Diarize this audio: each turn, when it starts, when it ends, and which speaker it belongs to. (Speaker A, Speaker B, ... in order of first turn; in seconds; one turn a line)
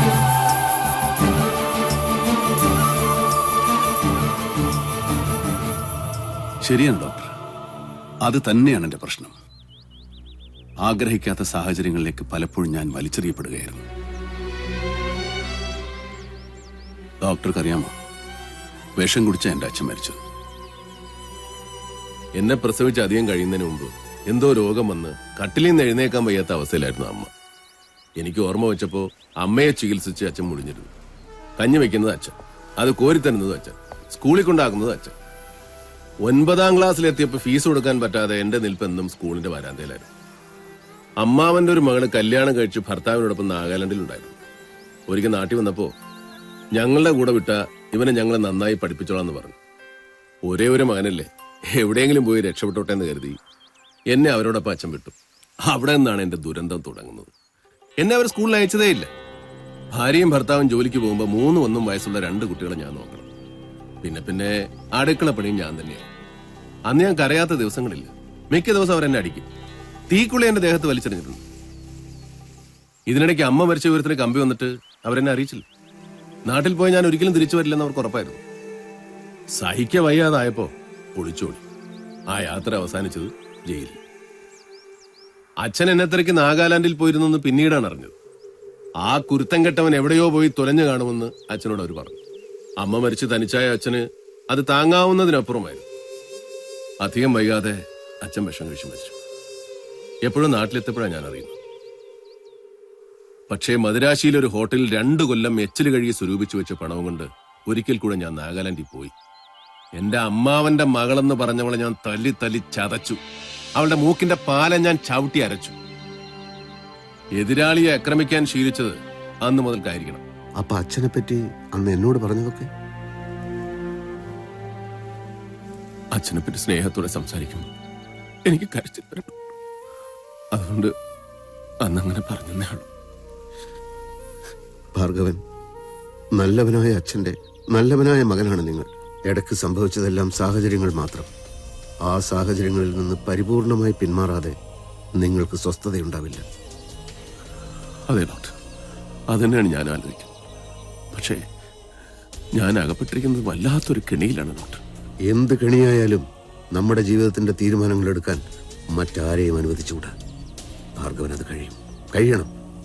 Speaker A: 6.6-7.3
Speaker A: 8.2-9.3
Speaker A: 10.8-13.9
Speaker A: 17.2-17.9
Speaker A: 19.0-20.2
Speaker B: 22.4-27.3
Speaker B: 28.2-30.9
Speaker B: 31.6-35.1
Speaker B: 36.3-40.1
Speaker B: 41.2-44.4
Speaker B: 45.1-45.9
Speaker B: 46.8-49.6
Speaker B: 50.5-53.4
Speaker B: 54.1-55.1
Speaker B: 55.7-57.3
Speaker B: 58.0-59.1
Speaker B: 60.0-63.3
Speaker B: 64.0-66.0
Speaker B: 66.9-69.5
Speaker B: 70.1-71.4
Speaker B: 73.1-75.6
Speaker B: 76.5-78.4
Speaker B: 79.6-81.6
Speaker B: 82.3-84.0
Speaker B: 85.6-88.2
Speaker B: 89.0-92.2
Speaker B: 92.8-95.8
Speaker B: 97.0-99.2
Speaker B: 100.3-101.6
Speaker B: 103.5-109.1
Speaker B: 110.0-113.2
Speaker B: 113.8-115.8
Speaker B: 117.4-120.2
Speaker C: 120.6-122.7
Speaker B: 126.2-127.7
Speaker B: 128.5-129.3
Speaker B: 130.6-130.9
Speaker B: 131.9-132.9
Speaker C: 134.9-135.4
Speaker C: 136.4-141.3
Speaker C: 142.1-144.6
Speaker C: 145.2-146.4
Speaker B: 148.1-148.6
Speaker B: 149.3-150.3
Speaker B: 151.1-151.4
Speaker B: 152.6-154.8
Speaker C: 155.3-158.4
Speaker C: 158.9-160.1
Speaker C: 161.0-162.5